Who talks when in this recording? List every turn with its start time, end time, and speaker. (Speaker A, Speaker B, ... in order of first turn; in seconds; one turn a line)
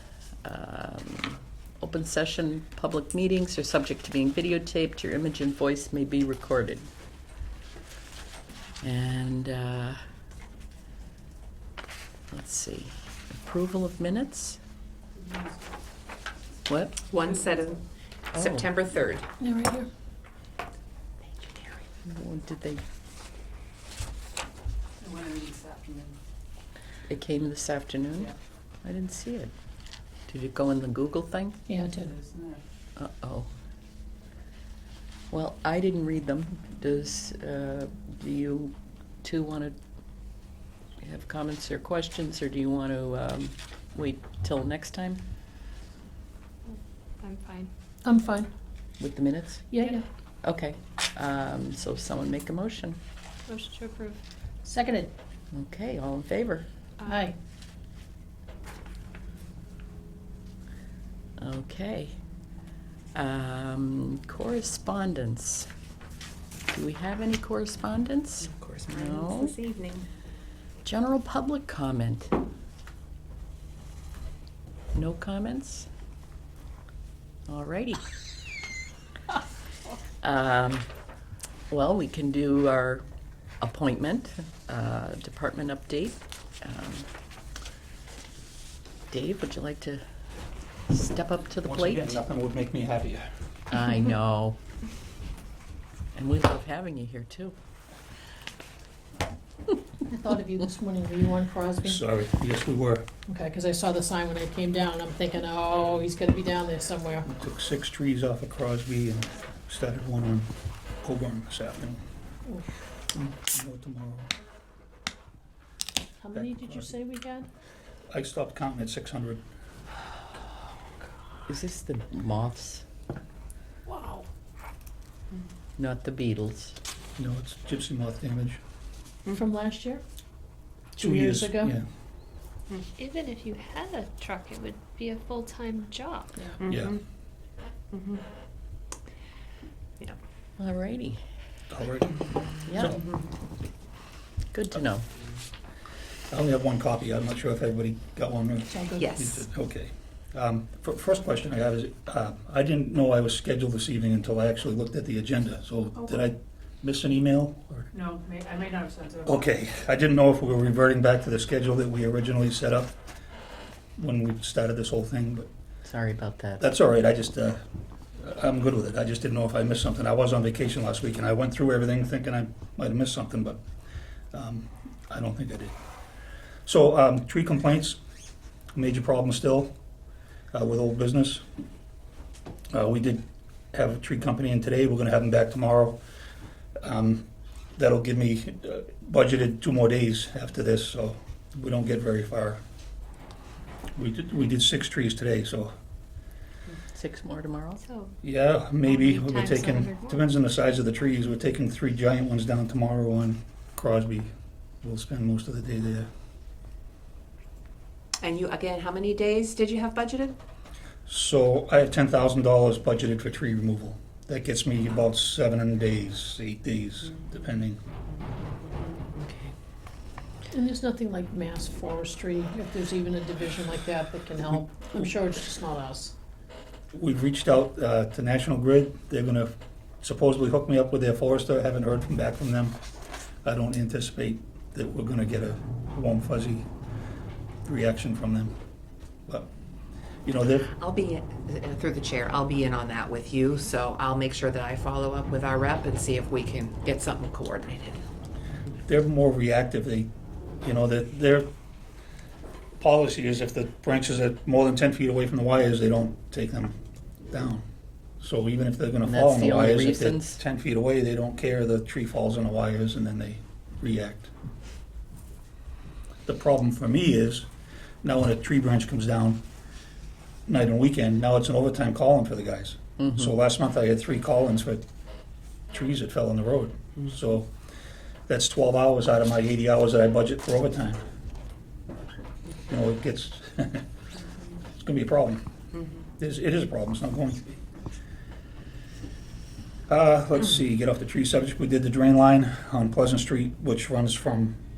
Speaker A: 0.4-6.9
Speaker A: 8.8-10.0
Speaker A: 12.3-14.6
Speaker B: 15.2-15.5
Speaker A: 16.7-17.0
Speaker C: 17.1-19.3
Speaker A: 18.3-18.7
Speaker D: 19.4-19.9
Speaker C: 21.4-21.8
Speaker A: 22.1-22.8
Speaker B: 25.0-26.2
Speaker A: 27.1-29.5
Speaker A: 30.3-31.6
Speaker D: 31.7-32.2
Speaker B: 31.9-32.6
Speaker A: 33.0-33.5
Speaker A: 35.3-39.8
Speaker A: 41.0-45.2
Speaker E: 46.7-47.7
Speaker D: 48.0-48.5
Speaker A: 49.0-49.7
Speaker D: 49.7-50.0
Speaker A: 50.4-53.0
Speaker E: 53.5-54.2
Speaker D: 54.6-55.1
Speaker A: 55.5-56.7
Speaker E: 57.0-57.3
Speaker D: 57.0-57.4
Speaker A: 61.4-62.2
Speaker A: 63.1-65.7
Speaker A: 66.7-69.5
Speaker C: 68.4-70.1
Speaker A: 70.8-72.3
Speaker A: 75.0-75.9
Speaker A: 77.5-78.0
Speaker A: 80.2-80.9
Speaker A: 81.7-83.0
Speaker A: 83.6-87.1
Speaker A: 89.1-90.0
Speaker A: 90.9-92.2
Speaker F: 91.7-93.3
Speaker A: 93.7-94.6
Speaker A: 96.2-97.6
Speaker D: 100.1-102.0
Speaker F: 101.8-103.1
Speaker D: 103.3-107.3
Speaker F: 107.3-110.5
Speaker F: 111.0-112.0
Speaker D: 112.5-112.8
Speaker F: 113.1-114.3
Speaker D: 116.2-117.5
Speaker F: 116.3-116.9
Speaker F: 118.1-119.4
Speaker A: 121.5-122.8
Speaker D: 123.9-124.3
Speaker A: 125.8-126.8
Speaker F: 127.2-128.6
Speaker D: 129.3-130.0
Speaker D: 130.9-131.8
Speaker F: 131.0-131.9
Speaker E: 133.0-136.5
Speaker C: 136.6-137.0
Speaker F: 136.7-136.9
Speaker C: 137.9-138.2
Speaker A: 140.6-141.2
Speaker F: 141.7-142.2
Speaker A: 142.7-143.0
Speaker C: 142.8-143.1
Speaker A: 144.5-145.1
Speaker F: 146.3-157.9
Speaker D: 148.7-149.3
Speaker C: 149.0-149.3
Speaker B: 157.9-159.4
Speaker F: 159.3-163.0
Speaker F: 164.0-165.5
Speaker A: 165.8-166.6
Speaker F: 166.6-167.6
Speaker F: 168.2-173.6
Speaker F: 174.3-175.8
Speaker F: 176.7-178.0
Speaker F: 178.8-179.7
Speaker F: 180.5-181.4
Speaker F: 182.7-186.0
Speaker F: 186.8-187.2
Speaker F: 187.8-192.6
Speaker F: 194.0-195.7
Speaker A: 196.7-197.8
Speaker E: 197.8-198.2
Speaker F: 198.2-204.3
Speaker E: 198.8-200.2
Speaker F: 204.8-206.1
Speaker C: 208.2-210.4
Speaker F: 211.1-217.8
Speaker D: 220.5-226.1
Speaker F: 226.9-232.8
Speaker F: 233.4-236.7
Speaker F: 237.7-238.6
Speaker F: 240.2-240.7
Speaker C: 240.7-248.0
Speaker F: 248.8-250.1
Speaker F: 250.6-251.5
Speaker F: 252.8-256.8
Speaker F: 257.3-257.6
Speaker F: 258.2-264.3
Speaker A: 259.0-260.4
Speaker F: 266.3-267.5
Speaker F: 268.0-269.4
Speaker F: 270.5-274.8
Speaker A: 273.0-273.3
Speaker F: 275.7-277.5
Speaker F: 278.3-281.0
Speaker F: 282.7-283.9
Speaker F: 284.8-285.4
Speaker F: 286.2-287.6
Speaker F: 289.9-294.6